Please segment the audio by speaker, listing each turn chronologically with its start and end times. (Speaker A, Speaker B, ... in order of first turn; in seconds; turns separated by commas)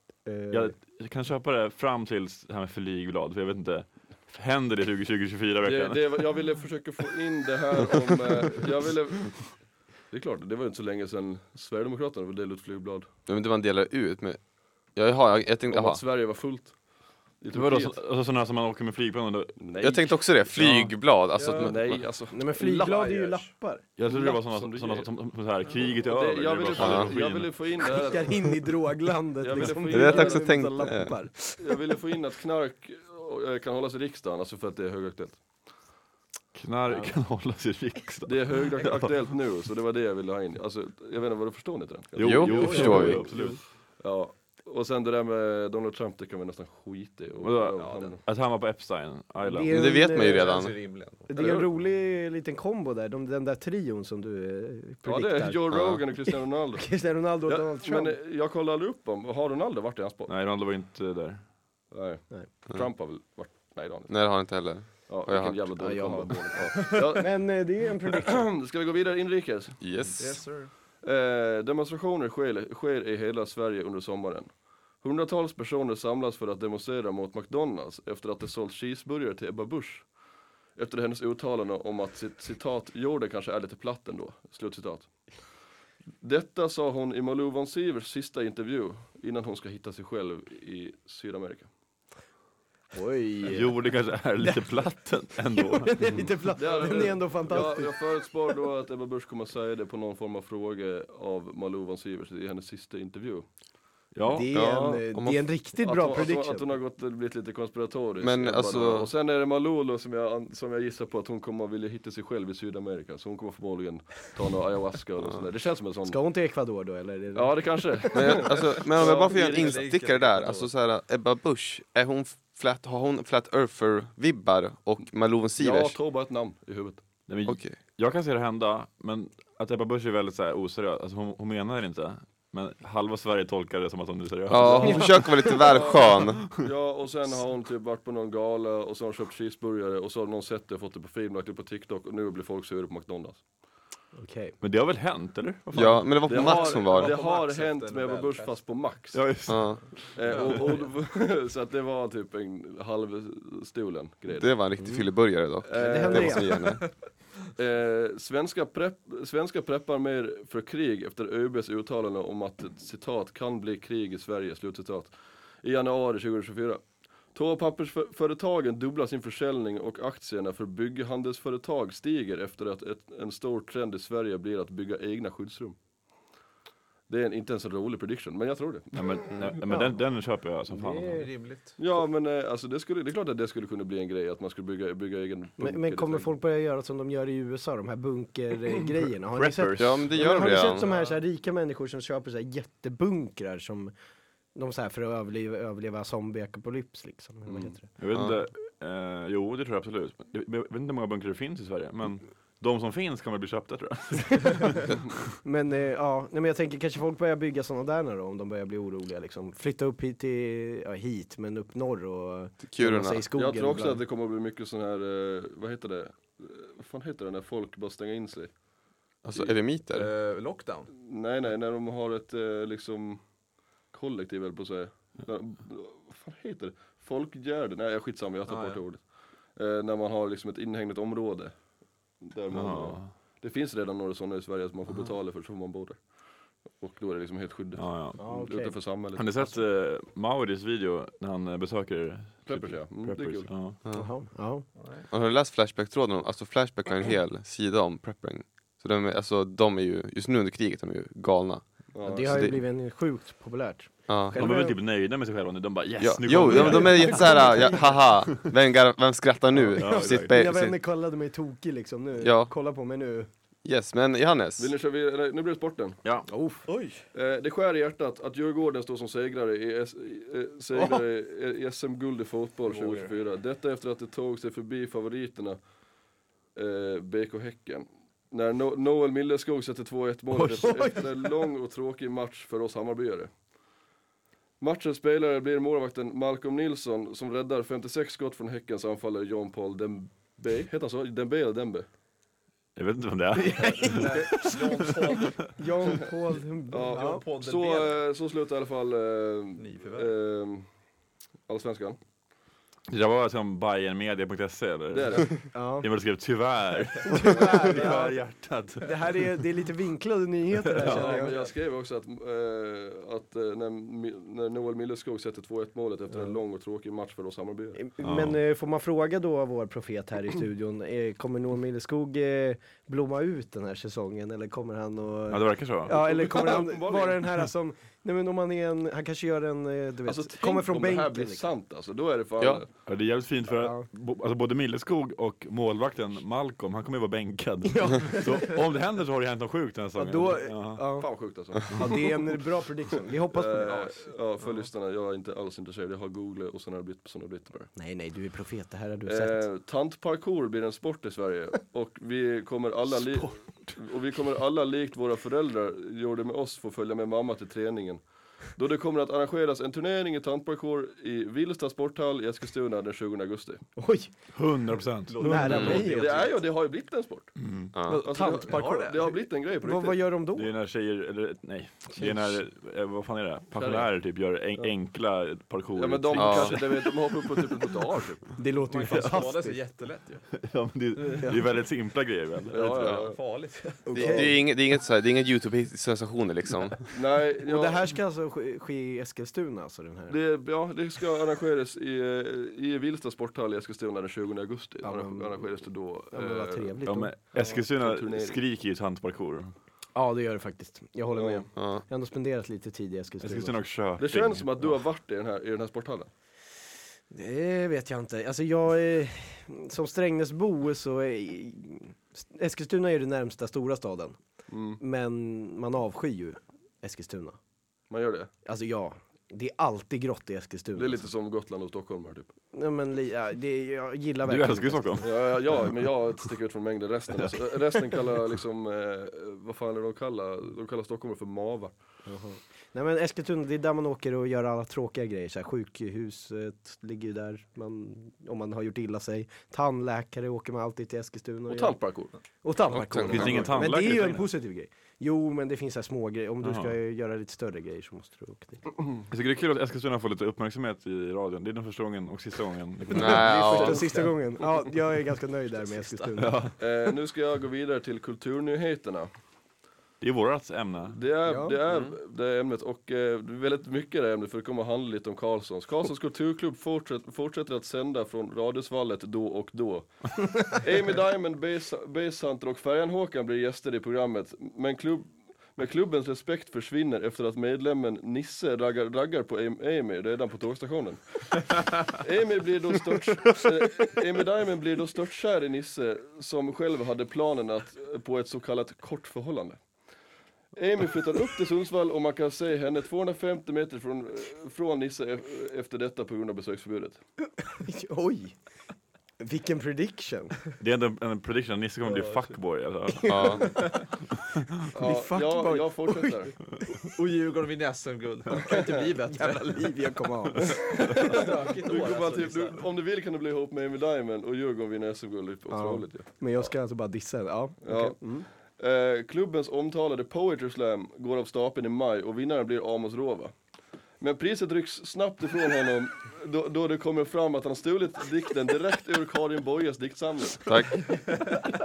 Speaker A: 0.2-0.8, Speaker B: 0.5-6.2, Speaker C: 5.6-13.1, Speaker D: 13.3-14.4, Speaker D: 14.9-16.0, Speaker C: 15.7-18.0, Speaker B: 17.5-19.6, Speaker C: 19.6-20.4, Speaker D: 19.8-22.0, Speaker B: 20.5-21.0, Speaker E: 21.4-21.7, Speaker C: 21.5-23.4, Speaker A: 22.3-23.9, Speaker E: 22.9-23.3, Speaker B: 24.0-27.6, Speaker C: 24.0-25.1, Speaker C: 26.0-28.6, Speaker D: 26.8-27.1, Speaker A: 27.8-31.8, Speaker C: 29.4-30.7, Speaker D: 29.9-31.4, Speaker C: 31.6-35.4, Speaker B: 36.5-39.1, Speaker C: 38.2-48.2, Speaker B: 42.1-43.6, Speaker D: 42.2-43.3, Speaker E: 42.5-43.2, Speaker A: 42.7-43.5, Speaker B: 47.4-50.0, Speaker E: 47.8-48.2, Speaker A: 49.4-58.2, Speaker D: 49.7-50.9, Speaker E: 50.1-51.3, Speaker C: 51.3-51.7, Speaker C: 55.0-60.3, Speaker D: 55.7-56.0, Speaker B: 60.3-61.4, Speaker C: 61.9-64.5, Speaker D: 64.1-65.7, Speaker C: 65.0-69.8, Speaker A: 65.8-68.5, Speaker D: 69.8-70.6, Speaker E: 70.0-70.7, Speaker C: 70.9-80.1, Speaker C: 80.7-85.3, Speaker C: 86.2-91.7, Speaker A: 92.9-98.5, Speaker B: 93.5-96.3, Speaker C: 96.5-103.5, Speaker B: 104.1-104.5, Speaker A: 104.2-106.8, Speaker D: 104.5-105.6, Speaker C: 105.8-116.2, Speaker D: 108.2-109.1, Speaker A: 116.1-118.3, Speaker C: 117.3-119.8, Speaker D: 118.1-126.0, Speaker E: 118.8-120.7, Speaker C: 125.6-127.0, Speaker B: 127.3-135.4, Speaker D: 127.4-127.8, Speaker D: 134.5-136.6, Speaker C: 134.5-143.4, Speaker A: 134.8-135.6, Speaker A: 144.1-144.6, Speaker B: 144.6-146.4, Speaker D: 145.7-147.2, Speaker C: 146.2-149.4, Speaker E: 146.3-148.8, Speaker B: 149.1-150.7, Speaker D: 149.4-150.0, Speaker C: 150.1-154.6, Speaker E: 150.3-150.9, Speaker D: 154.3-157.0, Speaker C: 155.6-156.6, Speaker A: 155.7-156.6, Speaker E: 156.6-156.9, Speaker C: 157.6-175.8, Speaker C: 177.1-179.6, Speaker B: 178.9-181.3, Speaker E: 180.8-181.8, Speaker C: 181.8-186.3, Speaker A: 185.6-193.9, Speaker B: 189.3-190.4, Speaker D: 189.8-190.9, Speaker E: 190.6-191.2, Speaker A: 194.5-197.9, Speaker C: 197.4-197.8, Speaker B: 198.0-205.2, Speaker D: 198.1-198.4, Speaker A: 205.4-214.0, Speaker D: 212.7-213.2, Speaker C: 213.3-218.5, Speaker D: 219.2-220.1, Speaker E: 219.9-220.9, Speaker C: 220.9-223.2, Speaker C: 223.9-231.6, Speaker E: 228.4-228.8, Speaker C: 232.2-236.1, Speaker B: 232.5-233.1, Speaker C: 236.7-239.6, Speaker B: 237.8-238.2, Speaker A: 238.2-238.8, Speaker B: 239.1-243.8, Speaker C: 242.4-243.7, Speaker A: 243.9-244.7, Speaker E: 244.8-245.1, Speaker D: 245.1-252.6, Speaker C: 251.9-252.5, Speaker A: 252.0-254.8, Speaker D: 254.1-254.5, Speaker B: 254.3-258.1, Speaker D: 256.0-260.8, Speaker A: 256.5-257.8, Speaker A: 259.5-263.3, Speaker B: 259.7-260.4, Speaker D: 262.2-262.5, Speaker D: 263.6-264.7, Speaker C: 264.6-266.0, Speaker A: 266.3-266.7, Speaker E: 266.6-267.1, Speaker C: 267.1-275.6, Speaker E: 272.6-273.1, Speaker C: 276.5-283.3, Speaker A: 280.3-281.0, Speaker C: 284.6-291.9, Speaker B: 292.8-294.1, Speaker A: 293.4-295.0, Speaker E: 293.8-295.6, Speaker A: 295.6-297.2, Speaker C: 296.7-300.6, Speaker E: 296.8-298.0, Speaker E: 299.6-300.1, Speaker C: 301.5-302.0, Speaker B: 302.9-309.3, Speaker C: 304.9-305.4, Speaker A: 305.5-305.9, Speaker A: 307.1-308.2, Speaker E: 307.6-308.0, Speaker A: 308.8-311.4, Speaker B: 310.8-311.2, Speaker C: 310.8-317.8, Speaker E: 310.9-311.5, Speaker A: 316.1-316.4, Speaker A: 317.8-331.5, Speaker B: 318.0-318.4, Speaker B: 325.3-325.9, Speaker C: 325.9-327.3, Speaker C: 330.0-332.7, Speaker B: 332.8-340.8, Speaker A: 333.6-333.9, Speaker A: 337.7-338.6, Speaker A: 339.9-344.1, Speaker C: 340.9-342.4, Speaker C: 343.3-347.7, Speaker A: 347.7-349.5, Speaker C: 349.1-363.6, Speaker A: 363.8-364.1, Speaker B: 364.3-365.4, Speaker E: 365.1-366.4, Speaker A: 365.2-366.4, Speaker C: 365.5-367.3, Speaker D: 365.5-365.8, Speaker B: 367.4-367.7, Speaker D: 367.7-368.0, Speaker A: 367.9-370.5, Speaker C: 368.0-370.0, Speaker E: 368.4-369.2, Speaker B: 370.3-377.2, Speaker A: 371.9-372.4, Speaker C: 373.5-373.9, Speaker C: 375.7-378.3, Speaker D: 376.1-376.6, Speaker A: 378.4-379.6, Speaker E: 378.7-380.4, Speaker B: 380.4-383.0, Speaker C: 382.5-383.2, Speaker E: 382.8-384.2, Speaker A: 383.9-384.4, Speaker D: 383.9-386.9, Speaker C: 386.9-387.9, Speaker A: 387.4-390.2, Speaker C: 390.1-396.8, Speaker A: 394.8-397.2, Speaker B: 396.8-399.5, Speaker C: 397.3-398.4, Speaker A: 399.9-403.6, Speaker C: 401.1-401.5, Speaker D: 401.5-401.8, Speaker B: 403.2-404.5, Speaker C: 404.0-406.1, Speaker A: 407.1-414.2, Speaker C: 414.5-414.8, Speaker A: 414.8-417.4, Speaker C: 417.9-418.3, Speaker A: 418.4-421.1, Speaker C: 420.7-422.3, Speaker A: 422.5-425.0, Speaker B: 424.2-425.7, Speaker C: 425.0-431.7, Speaker A: 432.0-441.8, Speaker C: 441.5-442.2, Speaker A: 442.4-448.6, Speaker D: 442.8-443.6, Speaker B: 442.9-444.3, Speaker B: 446.4-446.7, Speaker B: 449.1-453.5, Speaker A: 452.9-456.4, Speaker D: 452.9-453.9, Speaker E: 453.1-454.1, Speaker E: 455.7-456.1, Speaker B: 456.2-456.5, Speaker C: 456.6-459.1, Speaker B: 460.0-461.0, Speaker C: 460.9-489.6, Speaker A: 461.3-461.6, Speaker D: 461.7-461.9, Speaker C: 490.5-497.0, Speaker A: 497.5-498.4, Speaker A: 499.2-500.4, Speaker B: 500.6-503.5, Speaker E: 501.8-502.2, Speaker A: 503.0-503.8, Speaker D: 503.1-503.6, Speaker C: 504.7-506.4, Speaker A: 504.8-506.3, Speaker E: 506.8-509.9, Speaker A: 508.5-510.6, Speaker C: 510.4-516.5, Speaker E: 510.7-512.6, Speaker A: 515.5-518.3, Speaker C: 517.6-523.3, Speaker C: 524.0-530.5, Speaker D: 530.5-530.9